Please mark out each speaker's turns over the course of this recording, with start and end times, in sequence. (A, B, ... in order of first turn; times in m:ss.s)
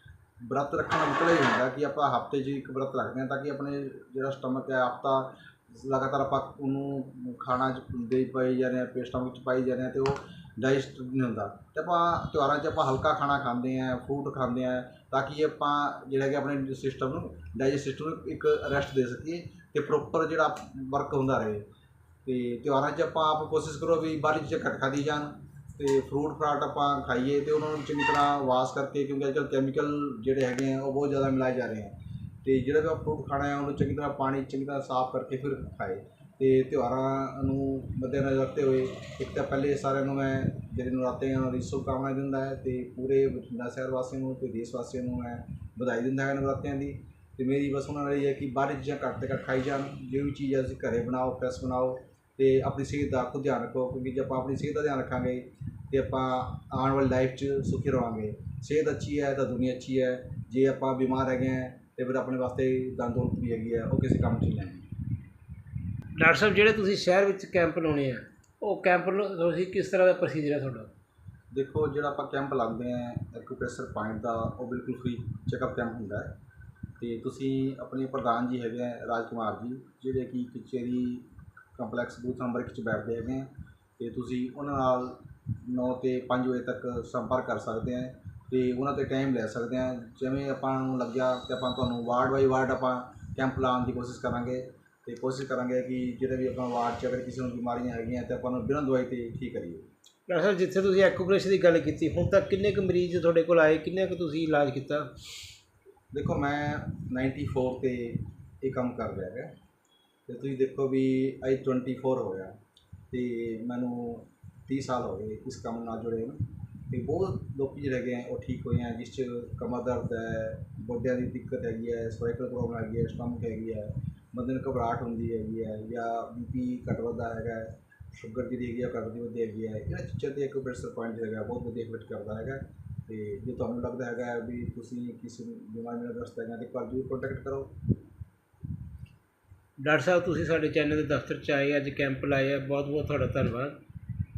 0:00.4-0:21.6 A
0:22.2-1:04.9 A
1:06.1-1:10.9 B
1:11.5-1:16.3 A
1:17.0-1:39.9 A
1:40.3-1:45.1 B
1:46.1-1:49.5 A
1:50.3-1:52.5 A
1:53.1-2:17.7 A
2:19.8-2:23.8 B